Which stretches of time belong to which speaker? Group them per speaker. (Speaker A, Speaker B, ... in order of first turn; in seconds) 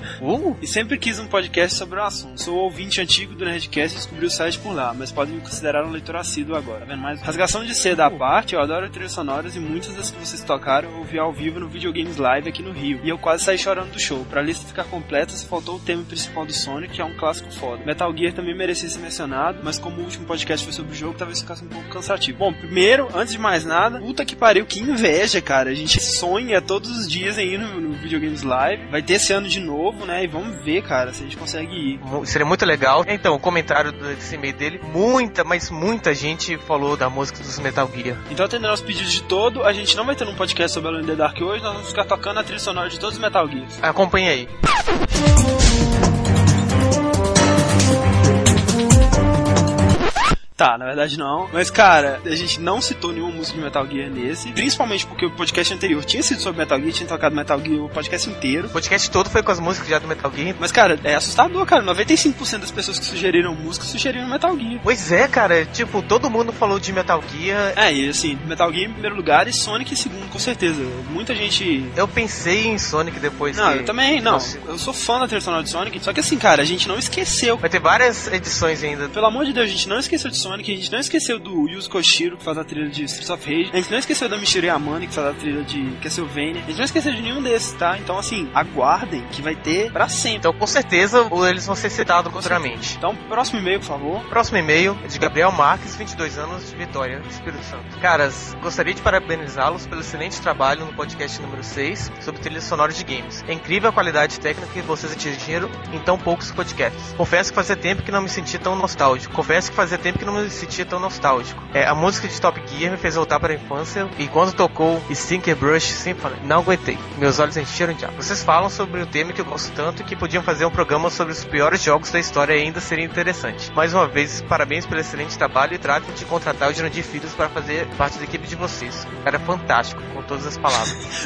Speaker A: 0.2-0.6, 32.0-38.2, 43.8-44.5, 58.7-60.6, 64.8-67.8, 72.0-74.6, 77.6-79.1, 90.4-93.0, 94.3-131.0
Speaker B: 0.6-32.0, 38.3-43.8, 50.6-58.7, 60.6-64.8, 67.8-72.0, 73.5-77.6, 79.1-90.4, 92.4-94.3